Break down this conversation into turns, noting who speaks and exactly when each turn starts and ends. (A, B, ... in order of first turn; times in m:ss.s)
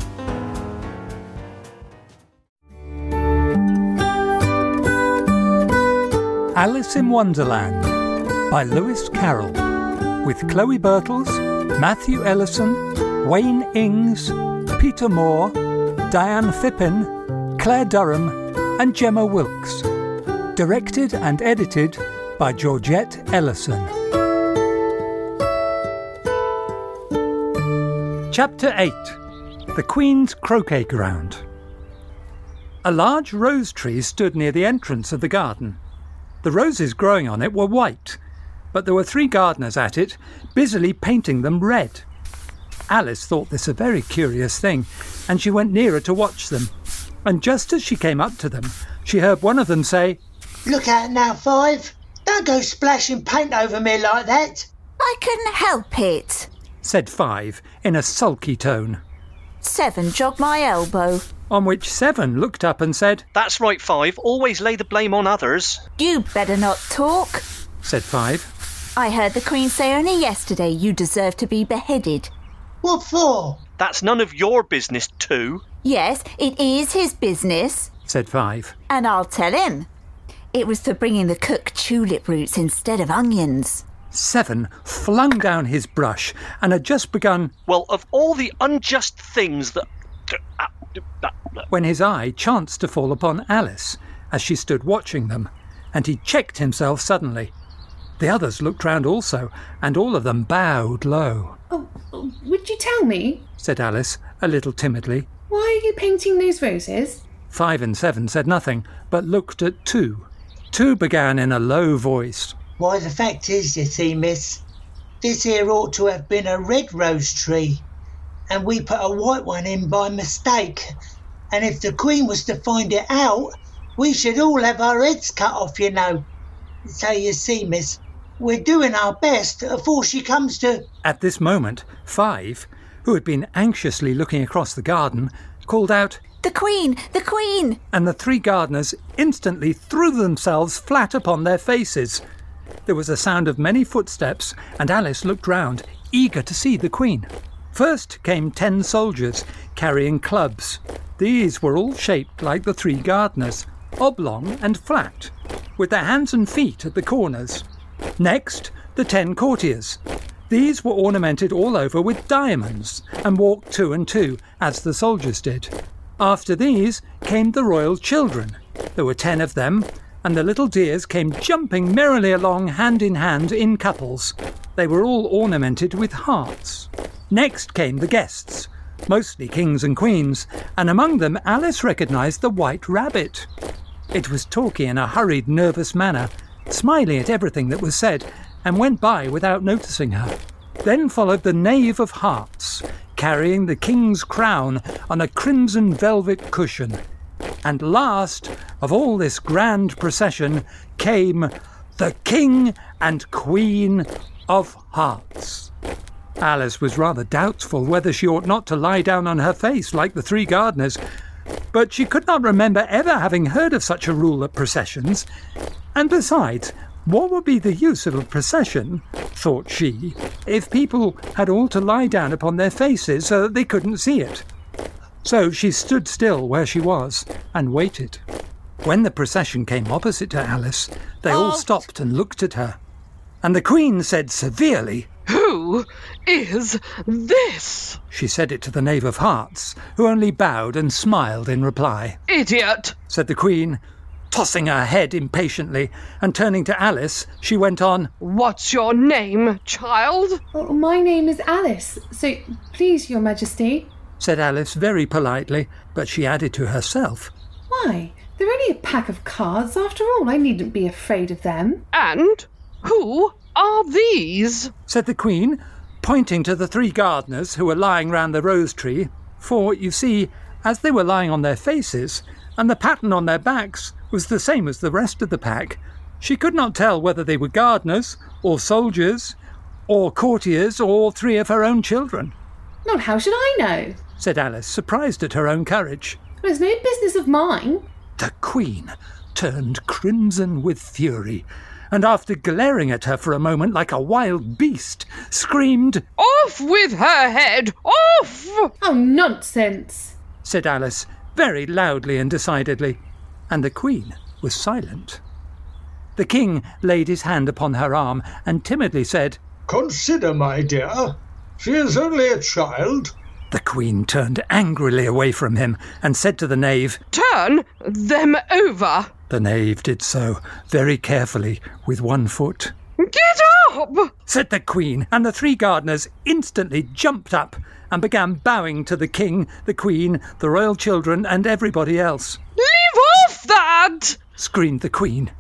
0:06.6-0:08.0 A
0:08.5-0:09.6 A
0:10.2-0:15.6 A
0:16.1-0:19.9 A
0:20.6-0:23.9 A
0:28.3-0:29.2 A
0:29.8-0:31.4 A
0:32.8-0:35.8 A
0:36.4-0:38.2 A
0:38.7-0:42.0 A
0:42.9-0:46.7 A
0:47.2-0:50.2 A
0:50.7-0:54.7 B
0:55.0-0:56.5 C
0:56.8-0:59.0 A
0:59.6-1:01.3 C
1:01.5-1:03.3 A
1:03.3-1:05.8 D
1:06.0-1:07.4 C
1:07.8-1:08.5 A
1:09.0-1:12.3 C
1:12.8-1:13.6 B
1:13.8-1:15.6 D
1:15.8-1:17.9 C
1:18.1-1:18.8 A
1:18.9-1:19.9 C
1:20.5-1:23.8 C
1:24.1-1:27.6 A
1:27.7-1:31.6 D
1:31.7-1:37.5 A
1:38.2-1:41.6 A
1:41.7-1:43.5 E
1:43.6-1:45.3 A
1:45.5-1:47.2 E
1:47.5-1:52.6 A
1:52.8-1:54.6 B
1:55.2-1:57.8 B
1:58.5-2:01.0 B
2:01.5-2:06.2 B
2:06.9-2:10.9 B
2:11.0-2:16.2 A
2:16.4-2:17.8 C
2:17.9-2:22.2 A
2:22.9-2:37.6 A
2:38.2-3:03.5 A
3:04.1-3:17.0 A
3:17.6-3:25.7 A
3:26.4-3:31.0 A
3:31.8-3:35.3 A
3:36.0-3:44.4 A
3:45.2-3:48.2 A
3:48.8-3:52.8 A
3:51.3-3:51.8 F
3:53.4-3:55.1 A
3:55.3-3:58.0 F
3:58.1-4:02.2 A
4:02.3-4:03.0 F
4:03.1-4:08.1 A
4:08.2-4:10.4 F
4:10.5-4:13.9 E
4:14.2-4:17.3 A
4:17.7-4:21.8 E
4:21.9-4:24.7 F
4:24.9-4:39.4 A
4:39.9-4:42.3 A
4:42.8-4:44.0 E
4:44.2-4:46.2 A
4:46.4-4:47.8 E
4:48.2-4:56.0 A
4:56.2-4:58.7 F
4:58.8-5:00.2 E
5:00.4-5:05.2 A
5:06.2-5:09.4 A
5:09.7-5:13.1 G
5:13.5-5:17.0 A
5:17.1-5:19.1 F
5:19.3-5:22.7 A
5:23.0-5:24.1 F
5:24.3-5:32.4 A
5:32.6-5:34.2 F
5:34.4-5:35.3 A